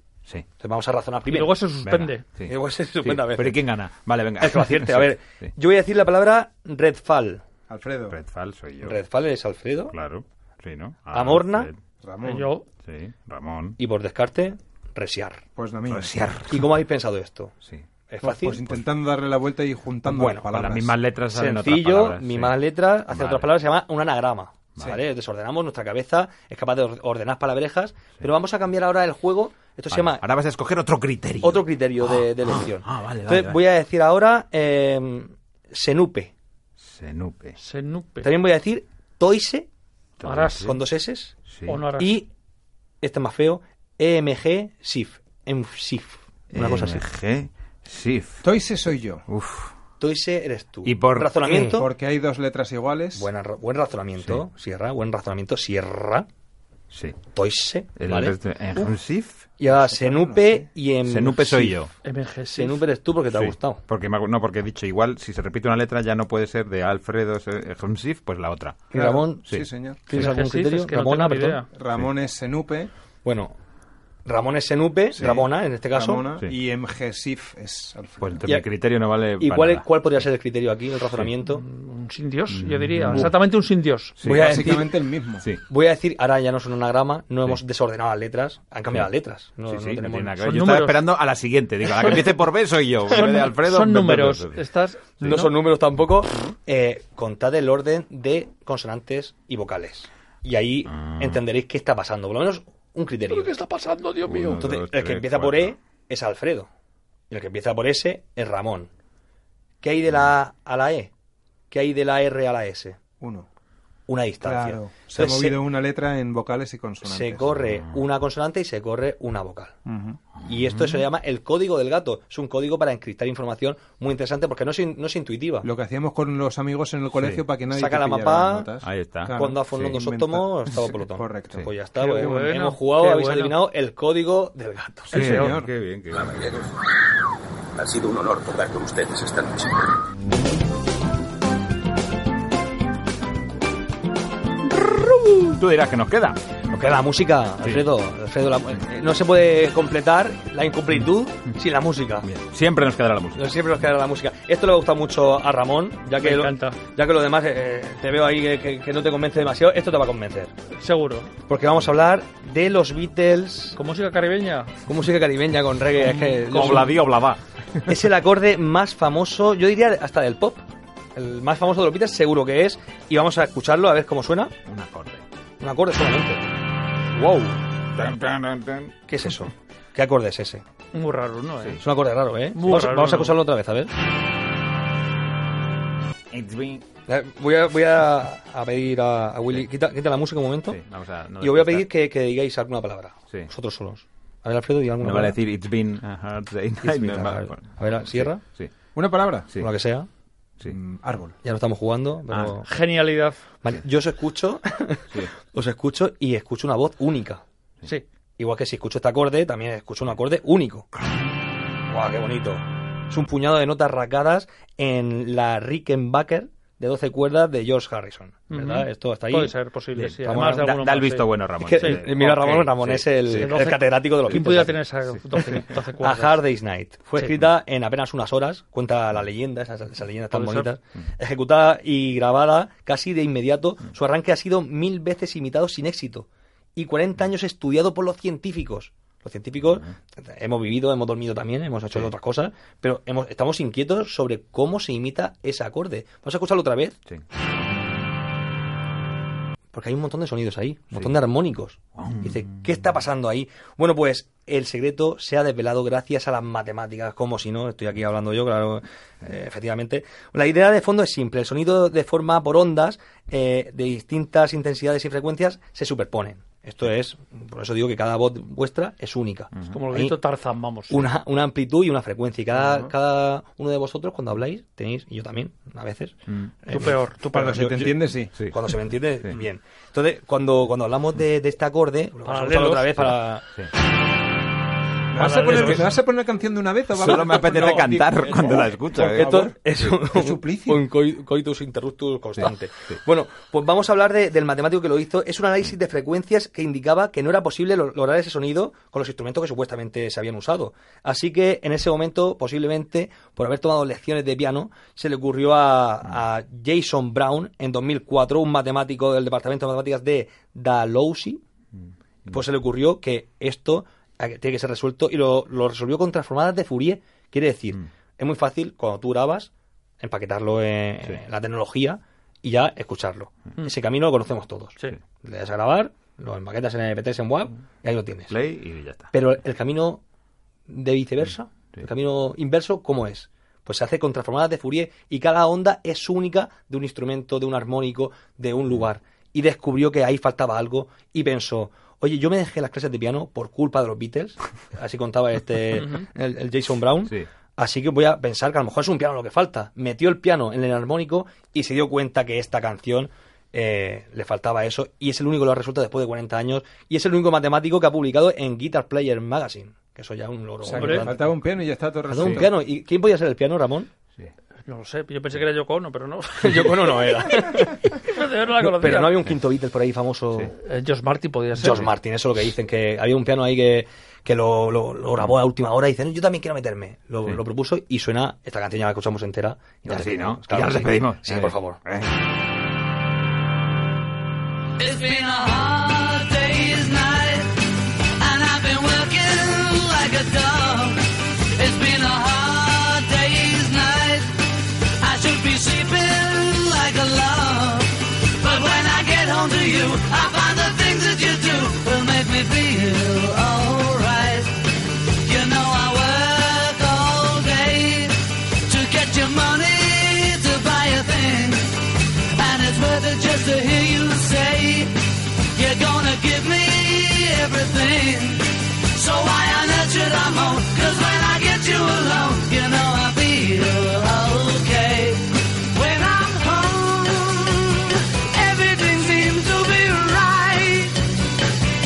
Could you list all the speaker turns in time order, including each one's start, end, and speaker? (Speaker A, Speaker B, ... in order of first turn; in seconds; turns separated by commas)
Speaker A: 0.6-1.5, Speaker B: 1.3-2.2, Speaker C: 1.8-5.5, Speaker A: 2.4-3.6, Speaker A: 4.4-7.4, Speaker D: 7.7-8.2, Speaker C: 8.1-8.9, Speaker A: 8.8-9.9, Speaker C: 9.9-11.8, Speaker A: 11.1-11.7, Speaker D: 12.0-12.5, Speaker B: 12.3-12.7, Speaker C: 12.8-13.8, Speaker A: 13.8-15.4, Speaker D: 15.6-16.4, Speaker C: 15.9-16.7, Speaker A: 16.5-17.5, Speaker A: 18.1-18.7, Speaker D: 18.2-21.0, Speaker C: 20.1-23.5, Speaker A: 21.3-30.2, Speaker C: 29.9-33.6, Speaker A: 31.4-36.3, Speaker C: 36.8-37.5, Speaker B: 37.6-38.3, Speaker A: 38.2-39.7, Speaker C: 40.2-40.8, Speaker B: 40.3-40.6, Speaker A: 40.6-41.3, Speaker C: 41.5-41.8, Speaker B: 41.7-42.2, Speaker A: 42.0-42.3, Speaker A: 43.0-47.0, Speaker C: 46.5-48.4, Speaker D: 48.4-49.2, Speaker C: 49.3-49.7, Speaker A: 50.0-51.9, Speaker C: 50.8-51.7, Speaker D: 51.4-53.3, Speaker A: 53.1-56.2, Speaker C: 56.9-57.2, Speaker A: 57.3-58.9, Speaker C: 58.0-60.0, Speaker A: 59.6-61.9, Speaker D: 60.1-60.6, Speaker C: 61.0-61.9, Speaker B: 62.0-62.8, Speaker A: 62.5-63.8, Speaker C: 63.3-68.9, Speaker A: 68.9-69.5, Speaker D: 68.9-70.0, Speaker C: 69.4-70.4, Speaker A: 70.1-71.6, Speaker B: 70.2-71.7, Speaker D: 71.7-72.9, Speaker A: 73.2-73.6, Speaker A: 74.2-76.2, Speaker D: 75.1-78.4, Speaker C: 78.2-79.8, Speaker A: 79.4-81.6, Speaker B: 81.5-84.1, Speaker C: 82.5-83.3, Speaker C: 84.2-84.5, Speaker A: 84.2-85.0, Speaker D: 84.3-85.5, Speaker A: 85.7-90.4, Speaker C: 89.7-94.7, Speaker B: 90.4-91.0, Speaker A: 91.9-92.3, Speaker B: 93.2-95.4, Speaker C: 95.2-95.5, Speaker A: 95.2-103.5, Speaker C: 101.0-101.4, Speaker B: 103.3-104.6, Speaker C: 104.2-105.7, Speaker A: 104.6-106.7, Speaker A: 107.3-108.9, Speaker A: 109.8-111.1, Speaker A: 111.7-113.0, Speaker D: 113.2-113.5, Speaker A: 114.1-115.6, Speaker D: 114.4-117.6, Speaker A: 117.0-119.7, Speaker D: 119.8-120.2, Speaker A: 120.4-125.7, Speaker D: 125.6-132.5, Speaker C: 127.2-127.4, Speaker A: 127.7-128.7, Speaker C: 128.8-130.0, Speaker A: 129.3-135.3, Speaker B: 131.9-133.6, Speaker D: 135.1-135.7, Speaker C: 135.1-136.6, Speaker B: 135.1-135.5, Speaker E: 137.8-139.8, Speaker C: 145.2-146.6, Speaker A: 146.7-152.3, Speaker C: 152.2-153.5, Speaker A: 153.3-160.5, Speaker B: 156.2-156.8, Speaker B: 160.8-161.3, Speaker A: 161.5-163.8, Speaker B: 163.8-164.7, Speaker A: 164.8-166.9, Speaker B: 166.0-166.9, Speaker C: 166.4-167.9, Speaker A: 167.9-174.5, Speaker C: 174.7-175.2, Speaker A: 175.6-176.4, Speaker C: 177.1-178.9, Speaker A: 179.1-180.6, Speaker B: 180.9-181.8, Speaker C: 181.6-181.8, Speaker A: 181.8-183.9, Speaker B: 182.5-183.3, Speaker C: 182.6-182.9, Speaker C: 186.3-186.8, Speaker A: 187.1-190.8, Speaker C: 190.7-191.9, Speaker A: 191.4-195.4, Speaker C: 195.0-198.7, Speaker A: 196.8-198.4, Speaker D: 198.9-199.5, Speaker A: 199.6-200.1, Speaker D: 200.7-201.3, Speaker A: 201.4-202.7, Speaker C: 202.3-202.6, Speaker B: 202.7-203.4, Speaker A: 203.6-207.4, Speaker A: 208.4-210.9, Speaker A: 211.9-219.5, Speaker B: 218.5-222.3, Speaker C: 219.9-223.6, Speaker A: 220.2-220.8, Speaker A: 221.6-224.8, Speaker B: 223.4-226.4, Speaker C: 224.3-224.6, Speaker C: 225.1-225.6, Speaker A: 226.0-247.0, Speaker B: 230.3-230.7, Speaker A: 249.7-270.2, Speaker C: 252.0-252.4, Speaker B: 269.7-271.1, Speaker A: 270.9-283.4, Speaker B: 276.7-277.6, Speaker D: 277.3-278.3, Speaker B: 282.2-283.0, Speaker D: 285.1-290.9, Speaker B: 285.2-285.9, Speaker C: 285.5-285.9, Speaker C: 286.9-289.5, Speaker A: 287.2-311.4, Speaker A: 312.3-328.3, Speaker C: 328.3-329.1, Speaker A: 329.1-330.0, Speaker A: 330.7-361.3, Speaker D: 360.6-362.5, Speaker B: 360.8-361.1, Speaker A: 362.1-363.9, Speaker B: 364.6-369.1, Speaker A: 366.4-368.0, Speaker A: 368.6-370.6, Speaker B: 370.6-371.9, Speaker A: 371.6-381.8, Speaker C: 379.9-382.1, Speaker F: 384.8-431.2